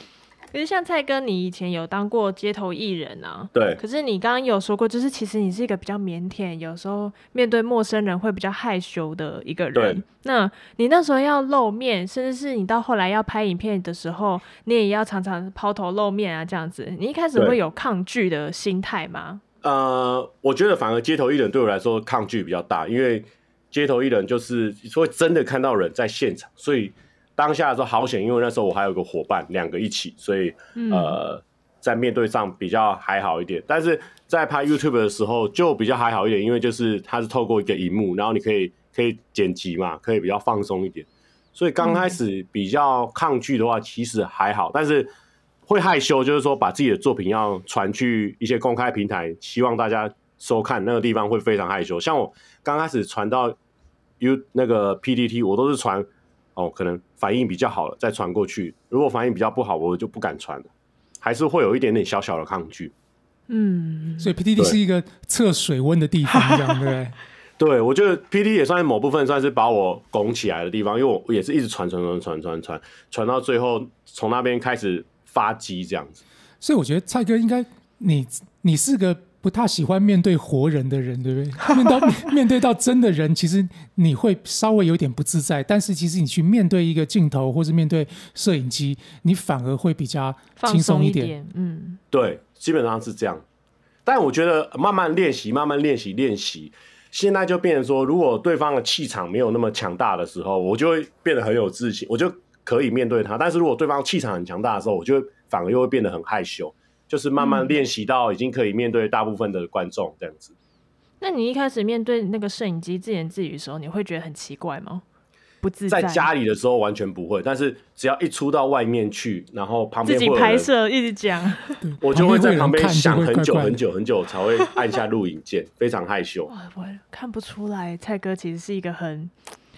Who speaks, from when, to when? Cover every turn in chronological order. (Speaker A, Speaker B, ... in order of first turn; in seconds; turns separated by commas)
Speaker A: 0.5-19.4, Speaker B: 3.5-3.8, Speaker B: 9.7-10.0, Speaker B: 19.6-45.1, Speaker A: 30.8-31.2, Speaker A: 41.8-42.2, Speaker B: 45.7-53.6, Speaker B: 54.2-60.7, Speaker B: 61.2-62.9, Speaker A: 63.5-64.3, Speaker C: 64.2-67.2, Speaker A: 66.3-66.9, Speaker B: 67.6-76.2, Speaker C: 76.6-91.3, Speaker A: 90.6-92.0, Speaker B: 92.1-93.4, Speaker B: 94.0-110.5, Speaker A: 107.4-107.8, Speaker A: 111.2-115.0, Speaker A: 115.6-116.3, Speaker B: 115.9-120.7, Speaker A: 120.0-121.8, Speaker C: 121.8-123.8, Speaker B: 122.0-126.5, Speaker A: 126.5-129.3